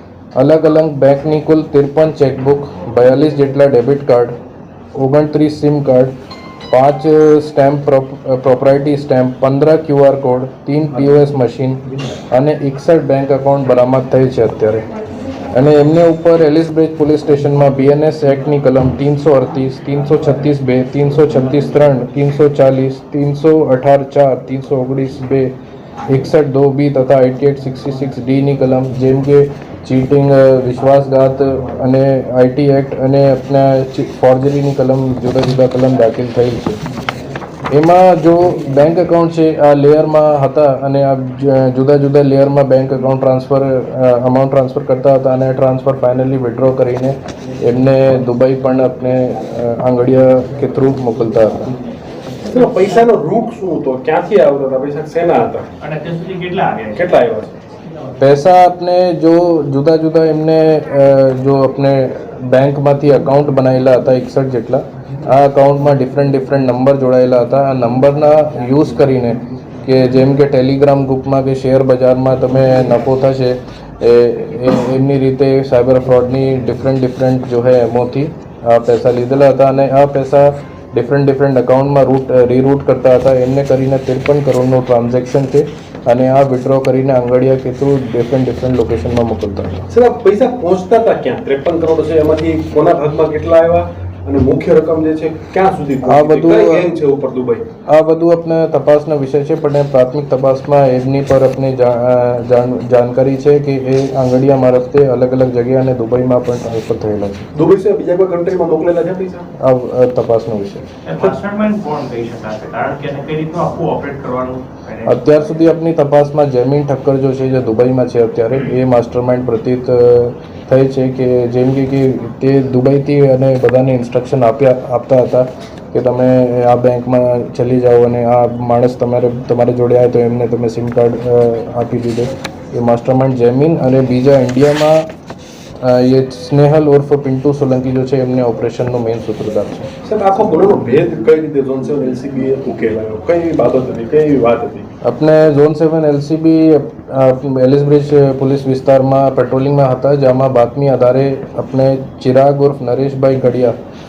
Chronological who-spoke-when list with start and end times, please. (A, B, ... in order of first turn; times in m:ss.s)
0:00.4-0:04.3 A
0:04.9-0:06.1 A
0:06.7-0:14.9 A
0:15.5-0:25.6 A
0:26.1-0:36.8 A
0:37.7-0:51.8 A
0:52.4-0:55.7 B
0:55.8-0:57.1 C
0:56.9-0:57.5 B
0:58.2-1:29.9 A
1:29.9-1:37.6 B
1:36.0-1:36.9 A
1:37.9-1:47.5 A
1:47.5-1:49.5 B
1:49.6-1:50.9 A
1:51.0-1:55.3 C
1:55.0-2:15.0 A
2:15.8-2:19.9 A
2:20.0-2:24.9 B
2:25.0-2:33.8 A